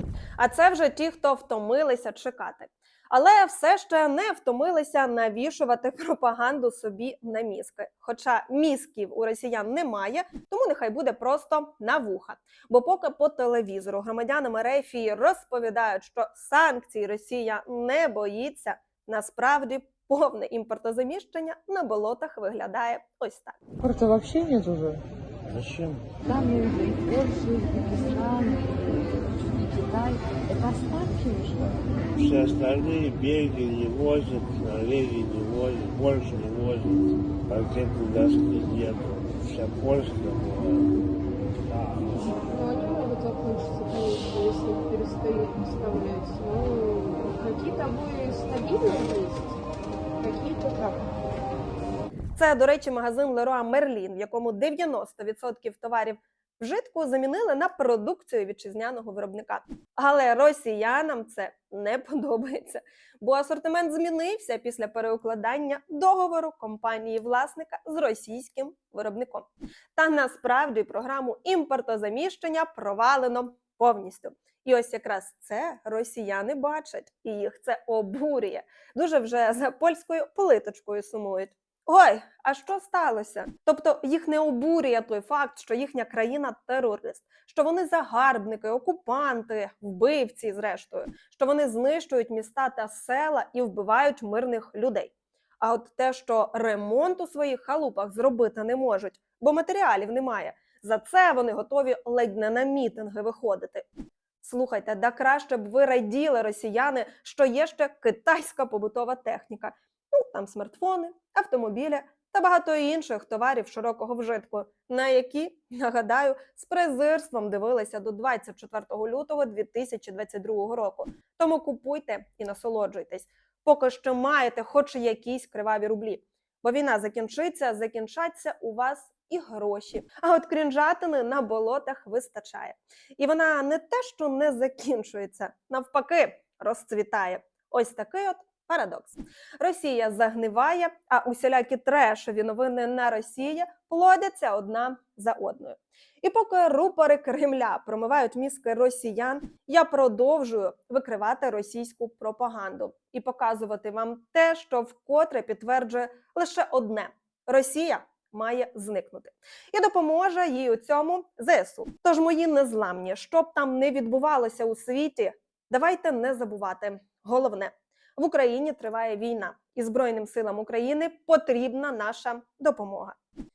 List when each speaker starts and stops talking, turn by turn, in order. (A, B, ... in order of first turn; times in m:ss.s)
0:00.4-0:23.6 A
0:23.8-0:25.0 B
0:25.5-0:26.1 C
0:26.3-0:28.7 B
0:28.7-0:29.2 C
0:29.5-0:31.8 B
0:32.1-0:41.0 C
0:41.7-0:42.3 C
0:42.5-0:49.6 D
0:50.2-0:51.0 D
0:52.4-1:43.9 A
1:44.4-2:53.2 A